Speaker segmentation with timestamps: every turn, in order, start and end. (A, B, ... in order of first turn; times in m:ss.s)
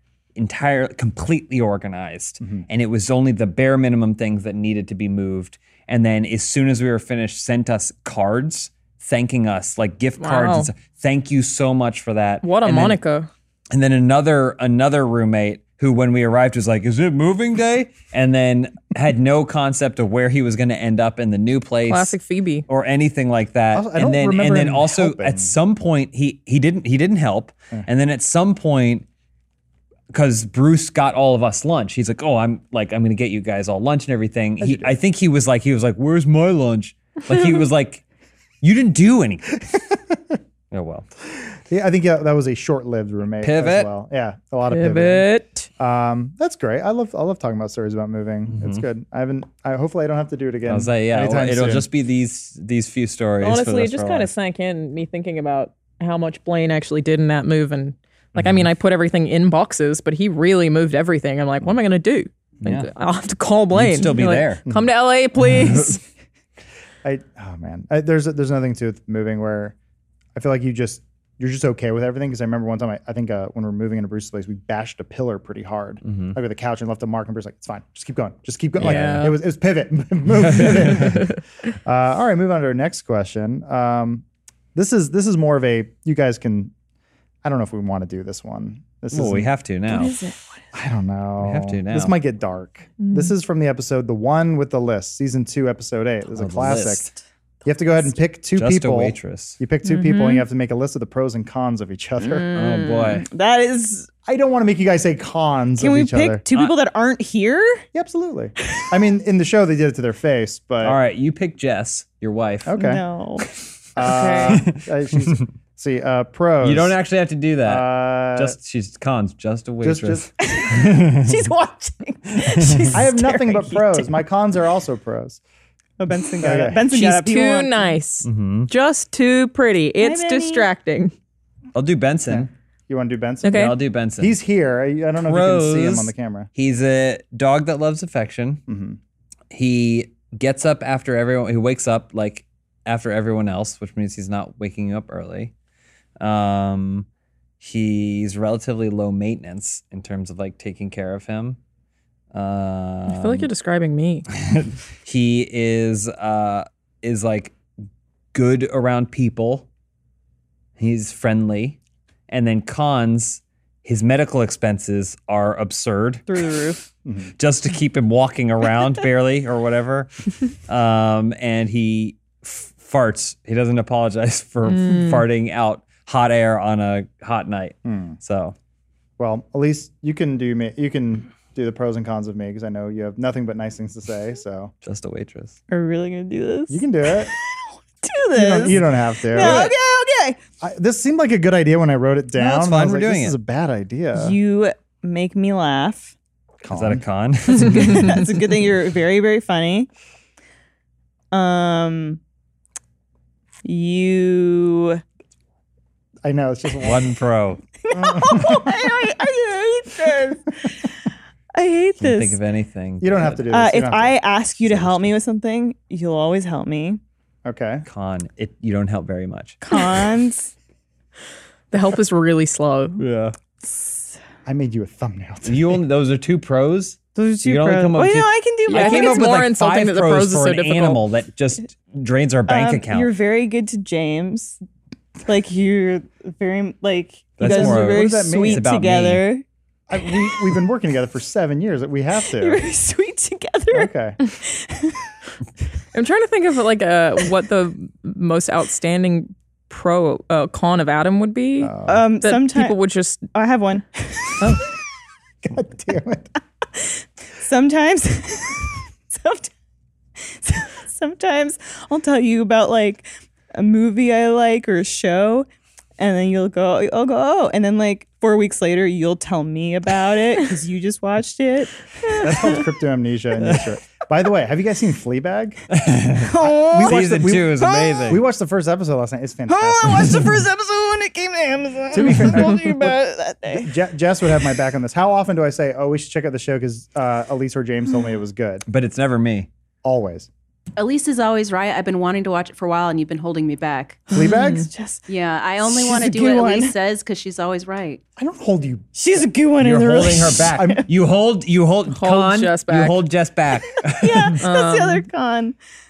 0:00.4-0:13.0 A
0:02.4-0:02.7 B
0:10.2-0:10.7 C
0:12.4-0:13.3 C
0:13.7-0:22.2 A
0:21.9-0:22.7 C
0:22.7-0:29.1 A
0:23.7-0:25.5 B
0:30.1-0:38.0 A
0:34.6-0:35.0 B
0:38.6-0:39.5 A
0:40.7-0:41.1 A
0:41.7-0:51.9 B
0:43.4-0:43.9 A
0:44.7-0:45.7 C
0:48.5-0:48.8 A
0:50.7-0:54.3 A
0:53.4-1:06.0 C
0:58.4-0:58.7 A
1:02.6-1:02.9 A
1:03.7-1:04.6 A
1:05.5-1:06.0 A
1:07.0-1:09.8 B
1:10.4-1:24.2 B
1:16.0-1:16.4 A
1:18.8-1:19.3 A
1:18.8-1:19.4 C
1:20.3-1:21.3 A
1:24.8-1:26.7 B
1:27.4-1:29.5 B
1:29.1-1:30.2 A
1:29.9-1:30.6 D
1:30.7-1:37.1 B
1:31.4-1:32.2 A
1:33.0-1:33.3 C
1:36.3-1:37.2 A
1:37.6-1:42.4 B
1:38.5-1:39.6 A
1:39.8-1:40.4 D
1:42.2-1:44.1 D
1:42.5-1:43.2 A
1:44.3-1:46.4 B
1:45.8-1:47.8 D
1:47.9-1:51.0 B
1:50.8-1:52.8 A
1:52.7-1:53.0 B
1:52.8-1:53.5 D
1:54.0-1:57.0 B
1:54.0-1:54.6 C
1:54.3-1:55.4 A
1:56.6-2:01.3 A
1:57.6-1:58.6 B
1:59.8-2:00.3 B
2:00.4-2:04.2 D
2:02.9-2:05.4 B
2:06.0-2:07.9 D
2:06.4-2:06.9 B
2:06.9-2:11.1 C
2:08.2-2:08.7 A
2:10.0-2:10.7 D
2:11.7-2:12.5 A
2:12.3-2:16.5 B
2:13.4-2:13.8 C
2:13.5-2:14.4 A
2:15.2-2:18.6 A
2:18.7-2:19.0 B
2:19.5-2:25.5 A
2:26.2-2:27.1 A
2:27.6-2:31.6 A
2:32.3-2:33.5 A
2:33.1-2:34.3 C
2:34.3-2:37.6 A
2:38.3-2:39.7 A
2:40.8-2:41.8 A
2:42.3-2:46.4 A
2:46.3-2:46.9 D
2:47.1-2:47.3 B
2:47.3-2:50.1 A
2:50.7-2:58.6 A
2:54.7-2:55.2 C
2:57.8-2:58.2 B
2:59.2-3:04.7 B
3:04.8-3:05.6 A
3:05.7-3:10.4 D
3:06.7-3:07.3 B
3:08.3-3:09.7 B
3:09.4-3:09.7 A
3:10.6-3:14.4 B
3:12.4-3:13.4 A
3:14.2-3:16.2 D
3:16.6-3:17.0 B
3:16.6-3:18.3 A
3:17.5-3:19.9 D
3:21.3-3:22.2 D
3:23.6-3:25.0 D
3:26.2-3:27.1 B
3:26.8-3:27.6 A
3:27.8-3:30.9 D
3:27.9-3:28.7 B
3:31.5-3:32.4 D
3:32.0-3:33.6 A
3:33.0-3:34.9 B
3:33.5-3:37.0 D
3:34.7-3:35.1 A
3:37.4-3:37.9 B
3:37.9-3:39.6 A
3:39.6-3:40.5 D
3:41.7-3:43.0 C
3:43.0-3:43.4 A
3:43.6-3:44.1 D
3:44.5-3:45.8 B
3:45.4-3:53.1 A
3:47.2-3:49.5 D
3:48.7-3:51.0 C
3:52.5-3:54.6 D
3:55.3-3:59.4 D
3:57.4-3:59.2 A
3:57.4-3:58.6 B
3:59.9-4:02.6 B
4:00.0-4:00.5 D
4:02.2-4:05.1 D
4:03.7-4:04.2 B
4:05.9-4:13.2 C
4:11.6-4:12.0 B
4:11.9-4:12.8 D
4:13.3-4:14.5 D
4:15.4-4:16.3 B
4:17.4-4:19.5 D
4:20.2-4:25.5 D
4:26.0-4:32.6 D
4:32.2-4:35.6 B
4:33.4-4:33.7 A
4:35.7-4:38.2 A
4:36.2-4:38.2 D
4:36.4-4:40.2 B
4:39.5-4:43.7 D
4:41.9-4:42.9 B
4:43.5-4:48.7 B
4:48.7-4:49.5 A
4:49.8-4:50.3 B
4:50.8-4:54.1 E
4:54.1-4:54.7 B
4:54.1-4:55.0 D
4:55.1-4:58.0 E
4:55.8-4:56.7 D
4:58.2-4:59.2 B
4:59.0-5:00.8 D
4:59.6-5:04.4 A
5:00.6-5:00.9 B
5:01.9-5:03.0 C
5:03.8-5:05.6 D
5:04.4-5:05.0 C